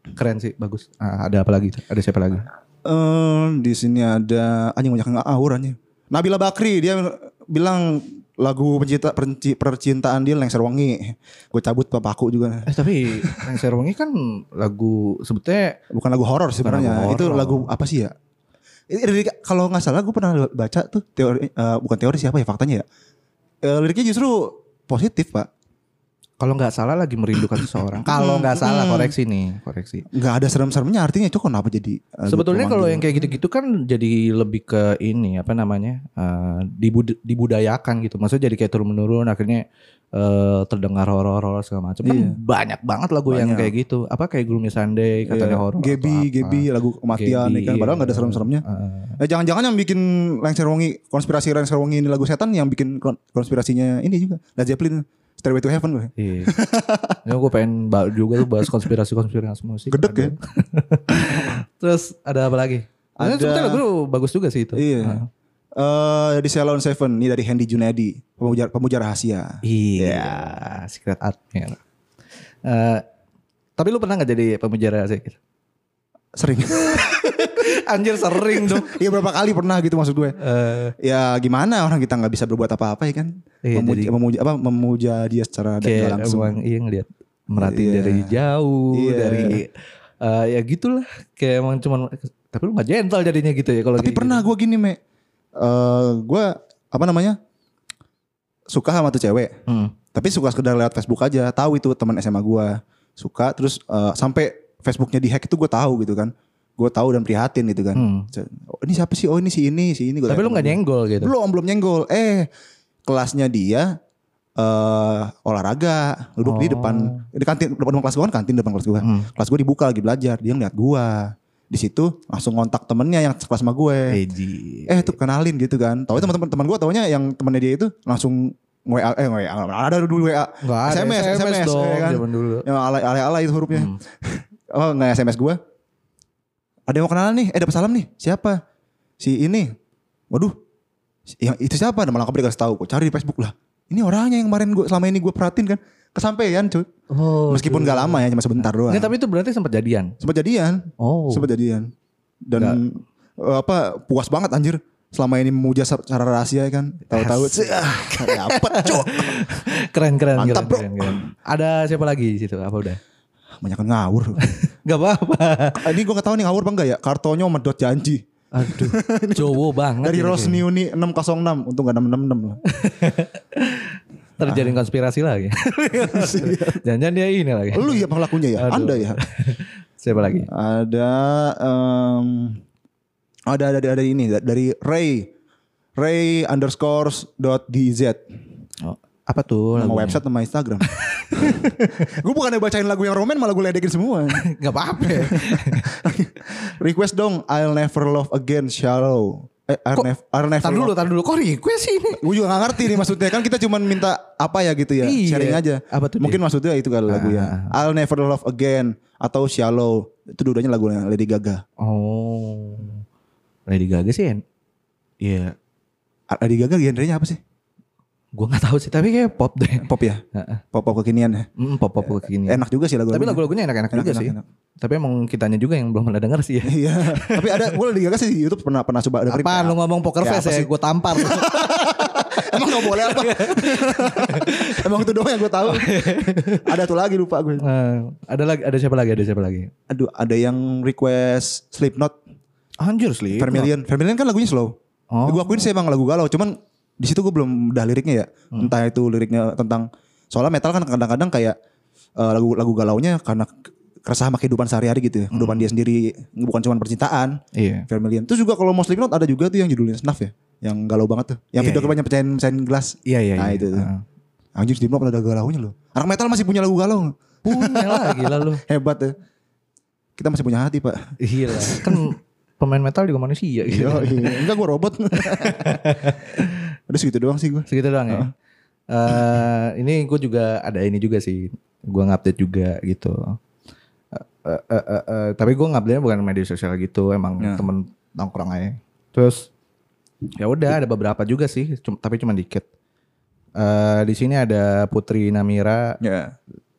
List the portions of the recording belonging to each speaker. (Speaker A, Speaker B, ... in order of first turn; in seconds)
Speaker A: 0.1-2.5, 12.7-15.8, 16.6-17.7, 26.4-30.1, 32.3-39.6, 40.1-49.2, 56.2-56.5, 57.2-65.3, 69.6-71.8, 72.6-73.0, 73.8-75.4, 76.8-79.0, 80.4-80.9, 83.6-84.1, 85.8-94.4, 99.7-99.9, 108.0-108.3, 110.3-111.3, 116.4-117.2, 119.0-119.3, 124.1-125.1, 130.6-132.7, 133.7-134.0, 147.1-150.2, 151.0-151.5, 157.1-163.0, 164.5-165.9, 168.5-170.6, 172.7-180.5, 188.8-190.2, 190.9-191.9, 194.4-195.9, 200.6-202.2, 202.8-203.0, 205.0-206.4, 207.1-207.8, 211.8-213.0, 213.7-214.4, 215.2-215.6, 218.4-220.6, 221.6-227.8, 229.3-234.9, 235.6-236.7, 237.6-239.7, 242.8-243.7, 245.1-245.6, 255.3-255.7, 257.6-257.9, 261.6-261.9, 263.1-264.0, 267.4-268.6, 271.2-274.4, 275.2-276.6, 277.7-278.3, 278.9-283.4, 284.1-289.5, 290.4-292.6, 293.6-296.0
Speaker B: 2.9-12.7, 13.2-13.6, 15.9-18.1, 18.9-22.9, 23.6-25.5, 28.0-29.1, 30.1-33.3, 42.0-42.4, 43.3-43.7, 45.3-48.6, 49.2-57.2, 59.9-60.3, 61.2-61.5, 63.2-63.8, 64.8-65.2, 65.8-70.6, 76.4-77.6, 78.3-80.4, 81.0-86.5, 87.6-88.3, 88.9-89.6, 94.0-95.0, 95.6-97.4, 98.7-99.5, 100.1-112.5, 113.1-113.9, 114.6-124.2, 124.9-135.6, 136.9-138.6, 139.2-139.8, 141.3-146.9, 147.5-149.1, 150.2-151.9, 152.5-159.4, 160.4-161.3, 163.6-164.4, 165.8-172.6, 174.5-174.8, 176.0-176.8, 177.7-179.2, 180.2-182.6, 183.5-185.3, 186.0-188.2, 189.8-194.4, 195.0-201.0, 202.2-211.6, 216.3-217.4, 219.8-220.2, 220.7-221.5, 222.0-224.4, 226.7-237.6, 239.9-242.2, 243.3-244.8, 245.3-251.6, 252.2-253.5, 254.0-263.9, 264.6-269.1, 270.2-272.1, 273.7-276.1, 276.9-278.3, 287.4-287.7, 296.0-296.3